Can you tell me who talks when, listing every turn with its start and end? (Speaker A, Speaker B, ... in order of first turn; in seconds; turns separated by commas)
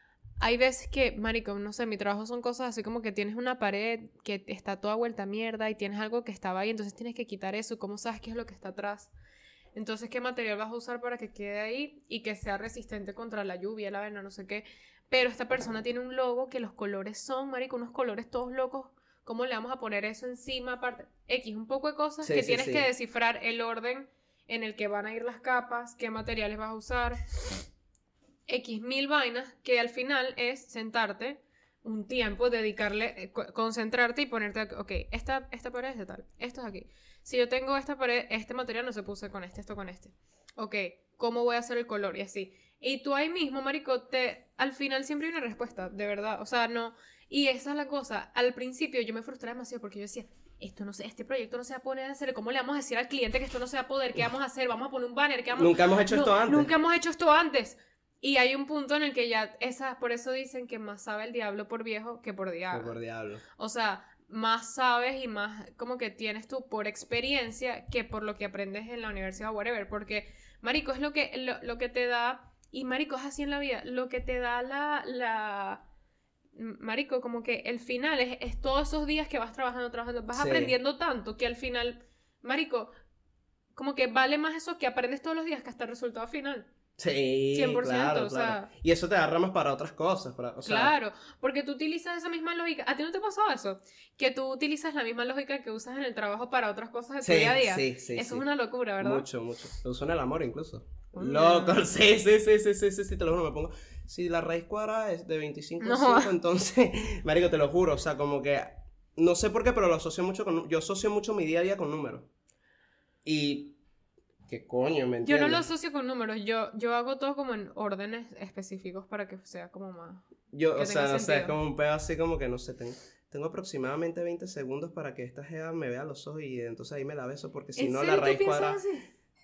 Speaker A: 0.4-9.1, Speaker A: 9.8-27.2, Speaker B: 22.2-22.9, Speaker A: 28.5-63.0, Speaker B: 55.6-56.7, Speaker B: 62.7-63.4, Speaker A: 63.5-75.8, Speaker A: 76.5-82.9, Speaker B: 80.3-80.7, Speaker A: 83.8-86.7, Speaker B: 87.0-90.9, Speaker A: 87.5-88.7, Speaker A: 90.7-99.3, Speaker B: 97.2-98.5, Speaker B: 99.0-112.3, Speaker A: 101.1-101.8, Speaker A: 105.8-106.3, Speaker B: 113.2-113.8, Speaker B: 114.5-115.7, Speaker A: 115.2-121.6, Speaker B: 120.5-128.8, Speaker A: 127.8-129.1